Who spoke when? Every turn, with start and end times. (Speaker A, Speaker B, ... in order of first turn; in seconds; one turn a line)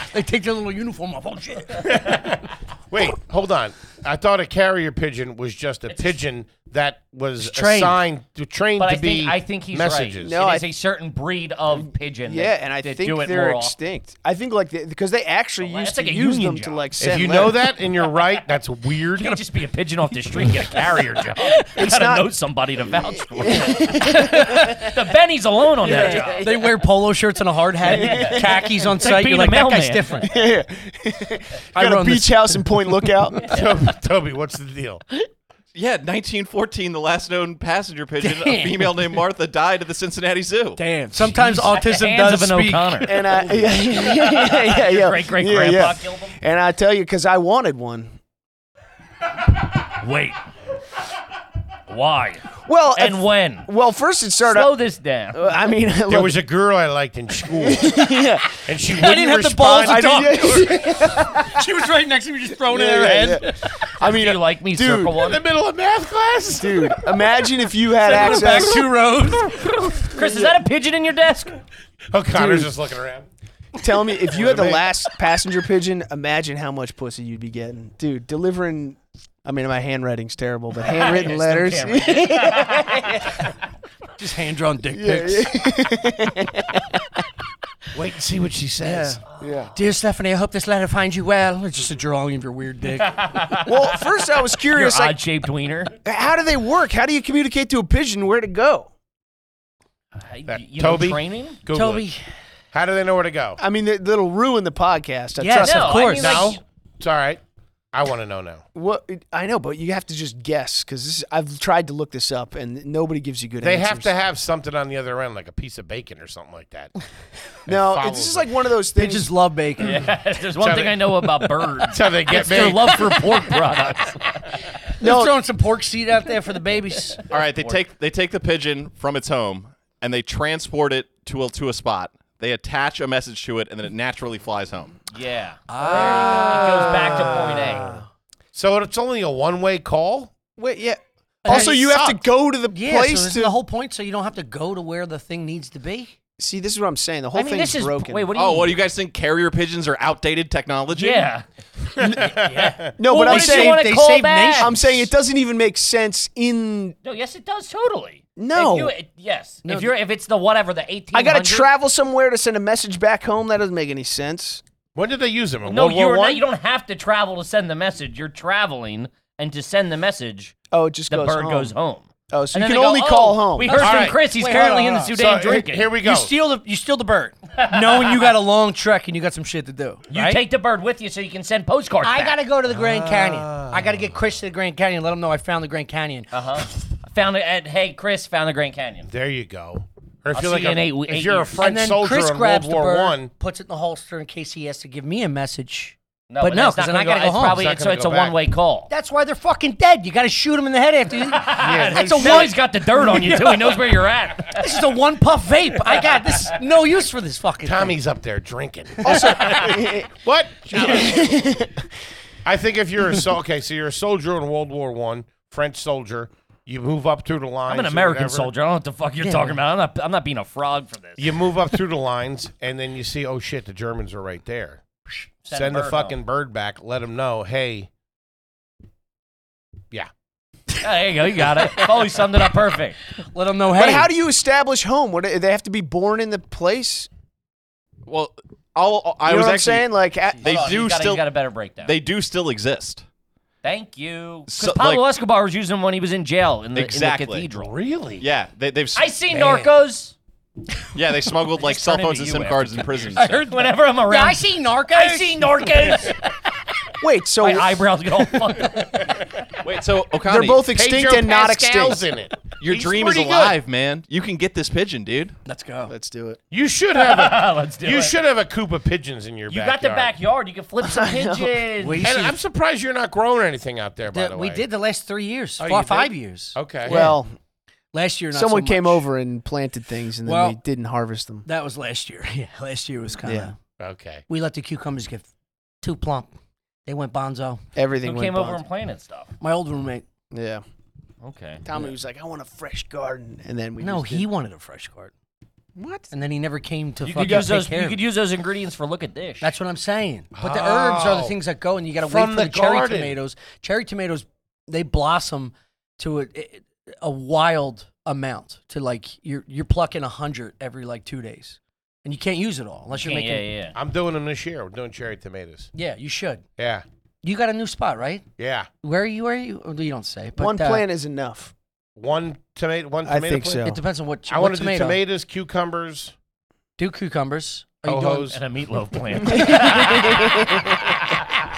Speaker A: 0.1-2.2
Speaker B: 1.8-10.3
Speaker A: 7.4-8.0
Speaker C: 8.8-13.7
Speaker D: 10.2-10.7
Speaker D: 11.7-17.6
Speaker C: 15.6-16.9
Speaker B: 17.0-19.4
Speaker C: 19.2-26.7
Speaker D: 21.7-22.3
Speaker D: 23.4-24.6
Speaker A: 24.1-24.9
Speaker A: 25.8-30.3
Speaker D: 25.8-26.5
Speaker C: 27.8-30.2
Speaker D: 27.9-28.7
Speaker D: 30.2-33.4
Speaker A: 31.7-33.5
Speaker B: 33.5-35.0
Speaker E: 35.7-41.2
Speaker A: 38.2-39.2
Speaker A: 40.8-43.4
Speaker C: 41.4-46.3
Speaker D: 43.0-48.2
Speaker C: 49.9-50.4
Speaker C: 51.9-53.7
Speaker D: 52.6-54.8
Speaker C: 54.4-55.5
Speaker D: 55.3-56.4
Speaker B: 56.1-58.1
Speaker D: 57.5-58.5
Speaker B: 58.6-60.1
Speaker A: 58.9-63.7
Speaker D: 59.8-61.6
Speaker D: 62.6-65.3
Speaker C: 64.0-65.4
Speaker B: 65.2-67.0
Speaker D: 66.6-68.9
Speaker A: 68.0-69.7
Speaker C: 69.9-71.5
Speaker D: 70.2-70.5
Speaker B: 72.1-73.3
Speaker D: 72.3-72.7
Speaker D: 73.8-83.4
Speaker B: 74.3-74.8
Speaker C: 80.8-83.1
Speaker A: 84.2-85.5
Speaker D: 84.9-87.0
Speaker B: 87.9-89.2
Speaker A: 88.8-89.2
Speaker D: 89.4-89.7
Speaker A: 89.7-93.4
Speaker C: 93.0-93.9
Speaker D: 93.6-95.2
Speaker C: 94.5-95.9
Speaker D: 96.0-98.9
Speaker C: 100.2-101.6
Speaker B: 100.5-102.1
Speaker A: 101.7-102.2
Speaker B: 102.7-103.6
Speaker D: 103.6-106.2
Speaker A: 105.4-106.5
Speaker C: 105.5-106.6
Speaker B: 106.2-107.4
Speaker B: 107.9-108.6
Speaker D: 108.7-114.1
Speaker B: 113.6-116.9
Speaker B: 117.6-118.5
Speaker D: 117.7-119.3
Speaker A: 118.9-120.0
Speaker C: 119.8-124.5
Speaker B: 120.6-123.2
Speaker A: 125.0-127.2
Speaker D: 125.0-125.3
Speaker E: 127.3-134.9
Speaker C: 135.1-137.9
Speaker A: 135.7-137.9
Speaker D: 135.9-138.0
Speaker B: 138.5-140.3
Speaker D: 140.6-143.5
Speaker A: 141.4-142.0
Speaker B: 141.4-142.2
Speaker A: 142.7-146.1
Speaker D: 146.4-148.3
Speaker C: 147.3-148.8
Speaker E: 148.3-151.3
Speaker C: 150.9-151.4
Speaker B: 152.0-152.9
Speaker A: 152.3-155.1
Speaker D: 153.0-153.9
Speaker C: 153.0-154.7
Speaker D: 154.6-156.9
Speaker C: 157.0-161.7
Speaker D: 158.3-158.9
Speaker A: 159.6-159.9
Speaker D: 161.1-164.6
Speaker B: 164.9-166.4
Speaker C: 165.7-170.5
Speaker D: 170.7-171.7
Speaker C: 171.1-175.9
Speaker D: 172.3-173.8
Speaker A: 173.6-175.2
Speaker B: 173.8-174.2
Speaker B: 175.1-176.3
Speaker A: 175.9-180.4
Speaker C: 177.8-178.1
Speaker C: 180.1-182.4
Speaker A: 182.0-186.6
Speaker B: 182.7-184.0
Speaker C: 186.3-189.1
Speaker B: 189.1-193.3
Speaker C: 190.3-191.6
Speaker A: 191.6-197.6
Speaker C: 196.3-198.9
Speaker B: 197.5-198.3
Speaker A: 198.9-203.8
Speaker C: 201.3-204.8
Speaker B: 201.5-202.5
Speaker A: 204.5-208.0
Speaker B: 207.6-211.6
Speaker D: 209.0-210.1
Speaker C: 209.3-209.8
Speaker D: 210.8-211.8
Speaker B: 212.4-218.5
Speaker C: 217.7-221.4
Speaker A: 219.2-219.6
Speaker B: 221.2-224.8
Speaker C: 225.4-226.2
Speaker B: 225.5-227.9
Speaker C: 230.8-233.0
Speaker A: 233.3-234.1
Speaker D: 233.7-237.1
Speaker E: 238.1-239.9
Speaker D: 239.2-240.7
Speaker E: 240.4-241.2
Speaker C: 240.4-241.9
Speaker E: 241.8-243.0
Speaker C: 243.6-247.7
Speaker E: 244.5-245.0
Speaker E: 246.7-247.5
Speaker B: 247.5-248.2
Speaker E: 248.2-249.1
Speaker C: 248.9-250.2
Speaker B: 249.3-249.7
Speaker E: 250.9-253.4
Speaker C: 251.5-256.3
Speaker A: 254.0-256.1
Speaker D: 257.0-257.9
Speaker C: 257.4-259.2
Speaker E: 259.6-260.6
Speaker D: 260.2-262.0
Speaker B: 260.7-263.6
Speaker E: 262.6-265.4
Speaker A: 265.4-265.9
Speaker D: 265.9-266.4
Speaker B: 266.5-270.1
Speaker C: 266.9-268.1
Speaker C: 269.5-272.0
Speaker D: 270.8-271.6
Speaker A: 271.8-272.4
Speaker B: 272.0-274.6
Speaker A: 274.1-277.2
Speaker B: 275.6-277.0
Speaker D: 276.9-277.3
Speaker A: 277.9-279.0
Speaker D: 278.3-281.5
Speaker A: 280.2-280.6
Speaker A: 281.4-283.6
Speaker D: 283.2-283.5
Speaker B: 283.8-284.2
Speaker A: 284.3-285.3
Speaker A: 285.8-286.3
Speaker A: 286.9-287.6
Speaker D: 287.8-288.6
Speaker C: 288.0-289.3
Speaker A: 289.4-290.1
Speaker D: 290.3-290.6
Speaker C: 291.2-291.6
Speaker D: 291.6-294.3
Speaker A: 293.8-295.1
Speaker D: 295.8-296.1
Speaker A: 296.1-298.0
Speaker C: 297.0-299.5
Speaker A: 299.4-313.5
Speaker B: 300.3-301.3
Speaker B: 302.0-303.1
Speaker C: 312.9-313.7
Speaker B: 313.7-315.7
Speaker A: 315.7-316.4
Speaker B: 316.6-316.8
Speaker A: 317.2-318.2
Speaker B: 318.4-318.7
Speaker A: 318.8-320.8
Speaker D: 320.4-321.5
Speaker B: 322.0-323.6
Speaker D: 323.1-323.8
Speaker A: 323.6-325.0
Speaker B: 324.3-326.1
Speaker A: 326.8-328.3
Speaker B: 327.8-328.4
Speaker C: 328.3-331.3
Speaker D: 329.3-330.6